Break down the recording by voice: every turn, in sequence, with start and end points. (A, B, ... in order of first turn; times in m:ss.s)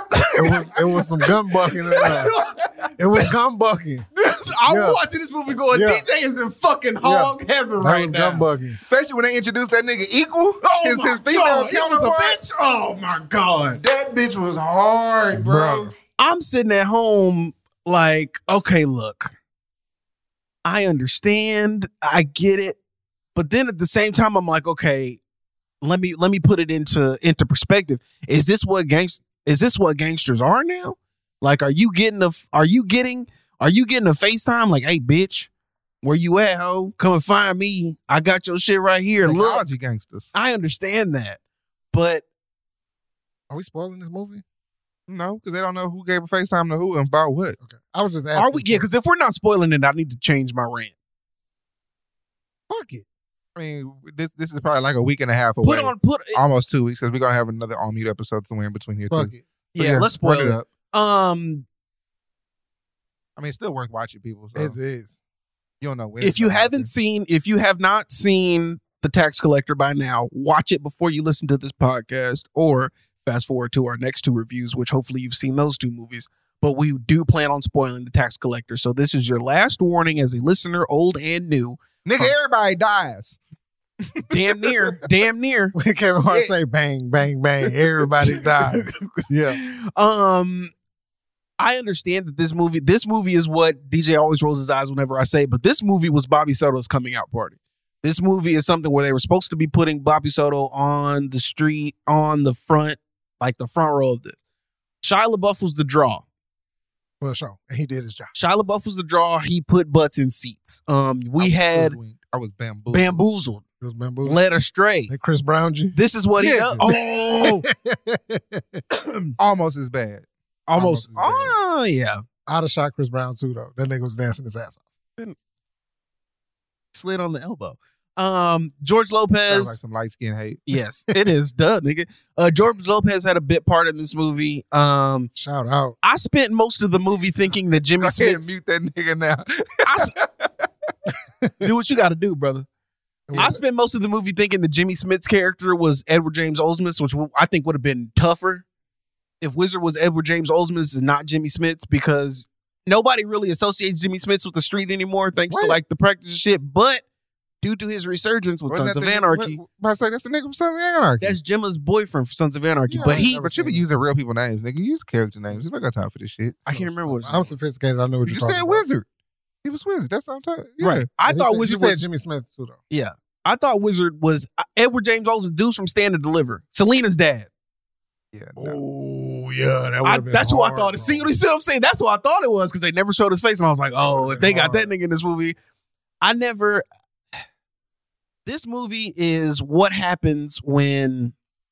0:00.3-0:02.3 A
0:01.9-0:02.7 B
0:03.0-0:04.1 A
0:04.2-0:08.5 B
0:04.7-0:05.0 A
0:05.7-0:06.0 A
0:07.0-0:08.8 A
0:08.8-0:12.4 C
0:10.6-0:13.8 B
0:13.8-0:15.9 C
0:15.3-0:15.9 A
0:16.2-0:19.3 B
0:20.6-0:22.8 B
0:23.4-0:25.2 B
0:25.8-0:35.5 B
0:36.0-0:39.6 B
0:39.2-0:40.3 C
0:40.3-0:41.4 B
0:41.9-0:42.2 B
0:43.5-0:44.4 A
0:45.1-0:47.6 C
0:47.6-0:48.9 A
0:48.4-0:50.9 B
0:52.7-0:53.0 A
0:53.6-1:00.7 C
0:55.6-0:56.4 B
0:59.1-0:59.4 A
0:59.8-1:01.7 B
1:03.4-1:04.8 C
1:04.6-1:05.2 A
1:05.8-1:06.9 C
1:06.2-1:21.8 B
1:22.0-1:23.4 C
1:24.1-1:25.0 C
1:24.3-1:25.8 B
1:25.8-1:29.6 A
1:26.3-1:26.5 C
1:28.4-1:30.7 B
1:31.6-1:44.4 B
1:45.0-1:46.2 B
1:47.2-1:48.3 A
1:48.4-1:52.0 B
1:51.4-1:53.3 C
1:52.9-1:53.6 B
1:53.8-1:54.4 A
1:54.2-1:55.1 B
1:55.1-1:56.0 A
1:55.9-1:57.6 B
1:56.4-1:56.9 C
1:56.8-1:58.8 A
1:58.9-1:59.3 B
1:59.4-2:01.6 C
2:00.7-2:02.2 B
2:02.5-2:04.8 A
2:06.9-2:09.8 B
2:09.5-2:10.7 C
2:10.7-2:15.3 B
2:15.4-2:16.0 A
2:16.0-2:18.5 B
2:18.0-2:20.5 C
2:19.9-2:20.1 B
2:21.6-2:22.7 B
2:23.3-2:23.6 A
2:23.3-2:28.6 B
2:29.4-2:37.0 B
2:37.6-2:39.6 B
2:38.7-2:41.4 C
2:41.2-2:43.4 B
2:42.9-2:43.8 A
2:43.1-2:47.2 C
2:46.7-2:47.5 B
2:47.2-2:48.8 A
2:48.2-2:49.0 C
2:49.6-2:51.1 C
2:50.8-2:52.0 B
2:51.2-2:52.8 A
2:52.9-2:57.5 B
2:58.3-2:58.8 C
2:58.6-3:01.3 A
3:00.0-3:05.6 B
3:04.0-3:04.9 A
3:06.2-3:06.8 B
3:08.5-3:11.3 B